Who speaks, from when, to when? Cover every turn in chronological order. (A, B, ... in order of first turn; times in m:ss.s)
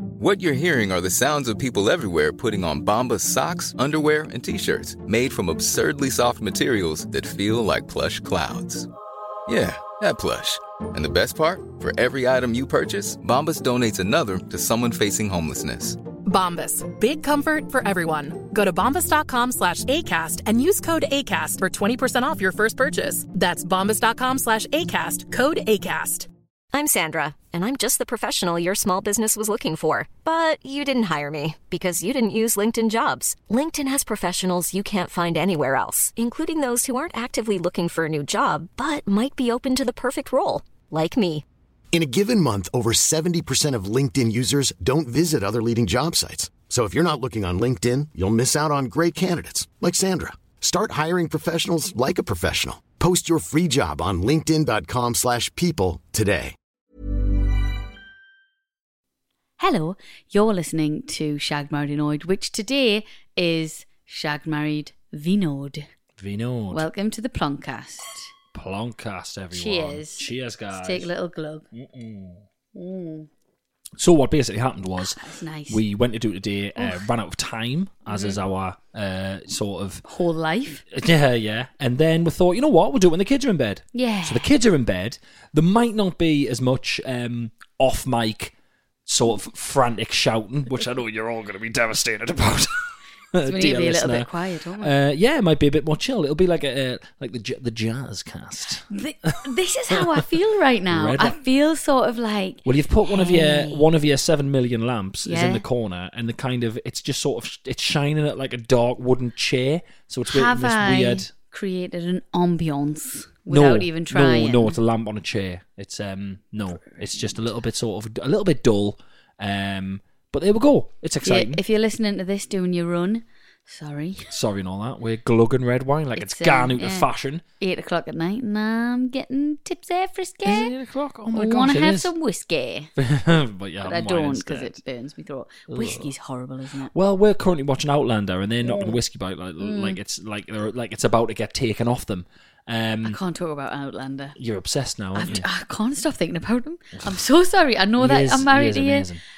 0:00.2-0:08.9 A
0:09.5-0:16.0 A
0:16.2-0:26.3 B
0:26.7-0:41.4 C
0:41.9-0:56.5 D
0:59.6-1:05.9 E
1:06.2-1:06.8 F
1:06.7-1:08.3 E
1:08.5-1:11.1 F
1:09.5-1:10.3 E
1:10.8-1:11.6 E
1:11.7-1:12.4 F
1:12.7-1:13.3 E
1:14.0-1:20.0 F
1:15.2-1:15.8 E
1:16.8-1:17.1 E
1:18.1-1:18.4 E
1:20.1-1:20.8 E
1:20.9-1:28.5 F
1:23.9-1:24.5 E
1:29.1-1:32.7 F
1:33.3-1:40.2 F
1:33.4-1:34.9 E
1:38.9-1:43.8 E
1:40.9-1:41.4 F
1:42.6-1:51.3 F
1:45.2-1:45.6 E
1:50.3-1:54.8 E
1:53.5-2:01.6 F
2:01.2-2:04.3 E
2:04.3-2:07.4 F
2:06.2-2:07.1 E
2:07.6-2:10.7 E
2:10.4-2:12.1 F
2:11.3-2:12.9 E
2:13.0-2:14.7 F
2:13.8-2:16.9 E
2:15.7-2:16.1 F
2:16.9-2:23.2 F
2:18.6-2:19.0 E
2:19.6-2:20.0 E
2:23.0-2:24.3 E
2:24.4-2:25.5 F
2:25.1-2:29.0 E
2:26.9-2:27.2 F
2:28.0-2:29.2 F